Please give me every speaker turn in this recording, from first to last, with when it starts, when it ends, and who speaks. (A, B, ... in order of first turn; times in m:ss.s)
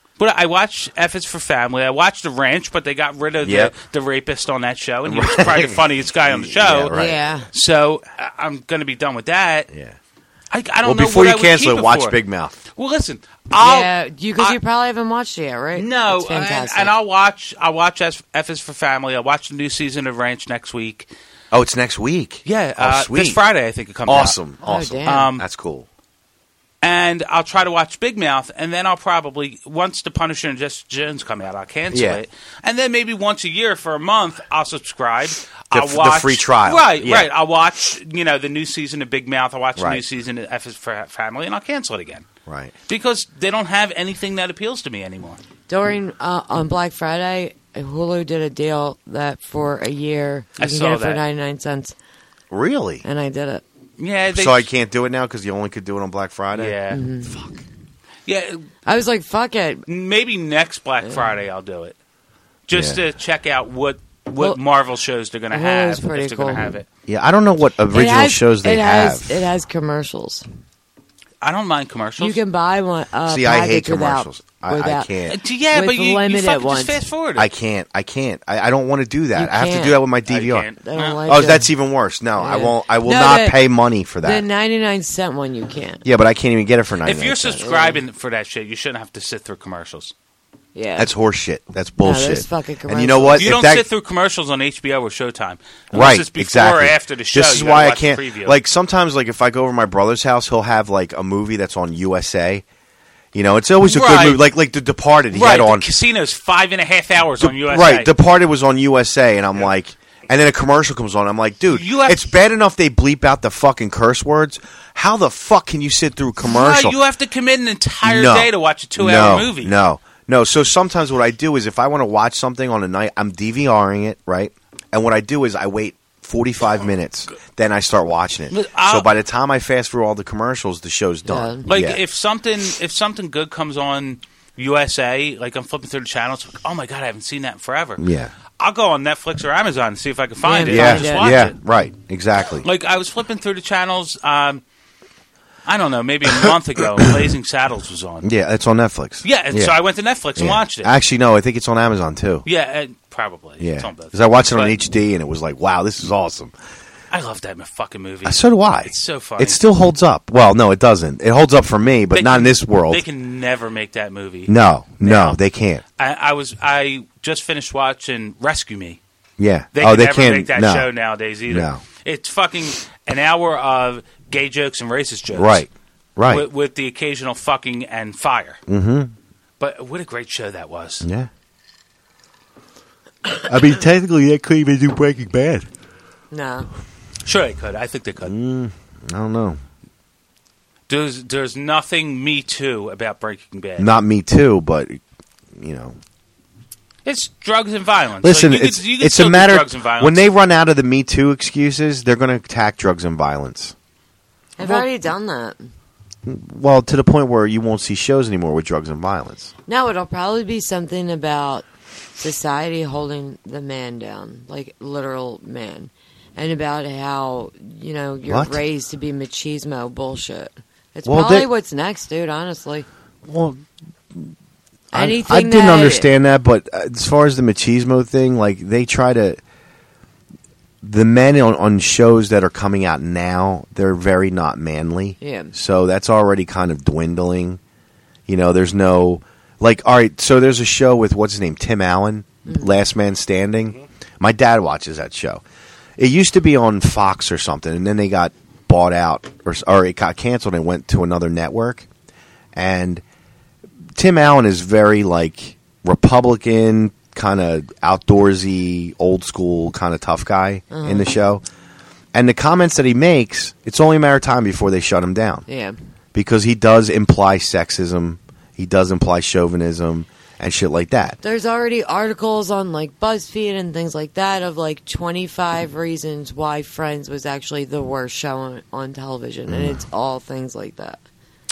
0:00.2-0:06.9 A
0:03.4-0:03.7 B
0:05.0-0:07.2 B
0:06.9-0:07.5 C
0:07.5-0:09.7 A
0:09.7-0:10.0 B
0:10.5-0:12.2 A
0:10.8-0:12.6 B
0:12.7-0:14.6 A
0:13.6-0:16.9 C
0:15.7-0:21.1 A
0:21.5-0:23.4 B
0:22.4-0:24.4 A
0:24.0-0:25.9 B
0:24.6-0:25.3 C
0:25.0-0:25.4 A
0:26.8-0:42.2 A
0:31.9-0:32.2 B
0:35.7-0:37.3 B
0:39.8-0:40.0 B
0:42.5-0:42.7 B
0:42.9-0:45.4 A
0:45.7-0:51.9 C
0:50.6-0:51.2 A
0:52.5-0:53.0 B
0:53.0-0:53.6 C
0:54.0-0:54.7 A
0:54.3-0:57.6 B
0:56.5-0:57.0 A
0:56.9-0:57.3 C
0:58.2-0:58.6 A
0:58.8-0:59.8 C
0:59.9-1:02.0 A
1:02.7-1:06.8 A
1:02.7-1:03.0 B
1:05.5-1:06.6 C
1:07.1-1:09.4 B
1:07.9-1:10.4 C
1:11.4-1:12.4 A
1:12.2-1:15.1 C
1:13.2-1:15.4 B
1:15.3-1:17.5 A
1:15.7-1:17.0 C
1:17.4-1:20.7 B
1:19.3-1:20.0 C
1:20.3-1:21.2 A
1:20.8-1:21.7 C
1:21.2-1:24.4 B
1:22.4-1:23.6 C
1:24.2-1:26.0 C
1:26.0-1:27.7 B
1:27.0-1:30.1 A
1:27.6-1:28.0 C
1:30.7-1:31.1 C
1:31.0-1:33.8 B
1:32.0-1:33.5 C
1:33.4-1:38.6 A
1:35.9-1:42.6 B
1:43.3-1:45.8 B
1:43.8-1:44.4 A
1:45.3-1:48.1 A
1:47.4-1:57.0 B
1:51.7-1:52.2 A
1:56.4-1:59.7 A
1:58.0-2:12.0 B
2:08.5-2:09.1 A
2:11.2-2:11.6 C
2:11.7-2:18.0 A
2:18.0-2:18.3 B
2:18.6-2:21.5 A
2:20.4-2:21.3 C
2:20.6-2:22.6 B
2:22.6-2:24.6 A
2:25.6-2:28.3 A
2:28.2-2:29.8 B
2:29.2-2:30.9 A
2:30.4-2:32.4 B
2:32.4-2:34.7 A
2:33.6-2:36.5 B
2:37.1-2:39.6 A
2:38.2-2:43.0 B
2:42.1-2:45.4 A
2:44.5-2:45.8 B
2:46.0-2:49.0 A
2:49.4-2:50.9 B
2:49.7-2:55.7 A
2:51.5-2:51.8 B
2:55.3-2:56.4 B
2:56.3-2:58.6 A
2:58.7-2:59.1 B
2:59.6-3:01.0 A
3:01.0-3:01.3 B
3:03.3-3:05.7 B
3:06.3-3:06.7 C
3:07.2-3:08.4 A
3:08.2-3:09.6 B
3:10.9-3:13.9 A
3:13.8-3:15.0 B
3:15.6-3:16.0 B
3:17.0-3:20.3 A
3:18.2-3:23.7 B
3:24.6-3:25.7 C
3:24.6-3:24.9 B
3:26.2-3:29.5 B
3:29.7-3:31.6 C
3:32.2-3:42.9 C
3:38.3-3:38.6 B
3:41.0-3:41.5 B
3:43.2-3:44.3 B
3:44.9-3:46.1 C
3:44.9-3:49.4 B
3:50.8-3:57.6 B
3:55.2-3:55.5 C
3:58.3-4:05.4 B
4:02.4-4:02.8 C
4:06.0-4:11.9 B
4:12.5-4:13.0 B
4:13.9-4:21.4 B
4:20.7-4:21.2 C
4:22.1-4:25.4 B
4:25.5-4:25.8 C
4:26.1-4:31.2 B
4:31.2-4:41.0 C
4:39.5-4:39.8 B